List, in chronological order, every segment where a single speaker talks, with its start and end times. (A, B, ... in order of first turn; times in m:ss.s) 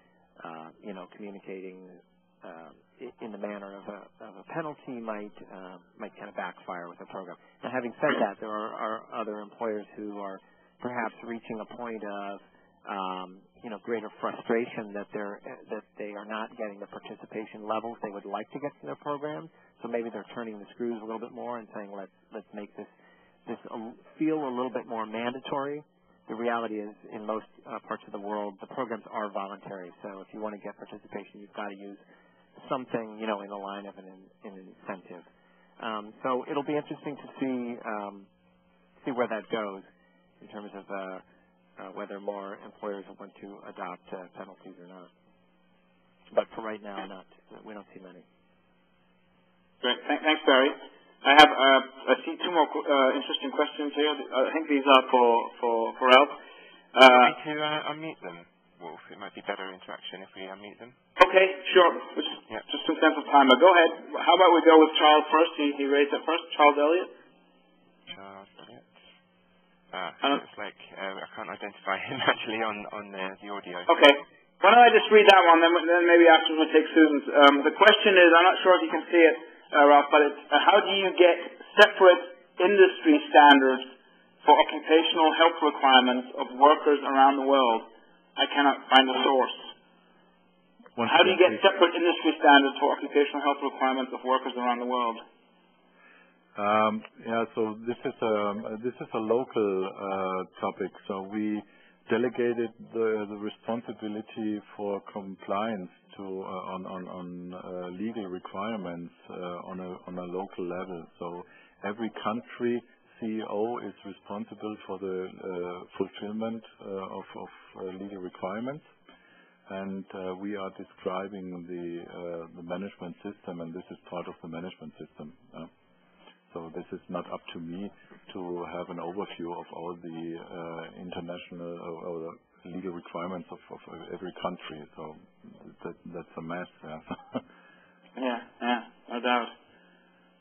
0:00.4-0:22.9 A
0:23.4-0:32.0 A
0:32.6-0:35.3 A
0:35.8-0:38.3 A
0:39.0-0:39.9 A
0:40.4-0:41.2 A
0:41.8-0:45.1 A
0:46.3-0:48.2 A
0:49.8-0:56.4 B
0:56.9-0:57.4 B
0:57.2-1:01.0 C
1:01.2-1:07.1 B
1:08.1-1:09.0 C
1:09.9-1:13.9 C
1:13.9-1:23.9 B
1:24.4-1:29.7 B
1:30.9-1:31.6 D
1:31.0-1:35.2 B
1:36.5-1:58.9 D
1:59.7-2:05.7 D
2:06.5-2:17.4 D
2:18.2-2:19.5 B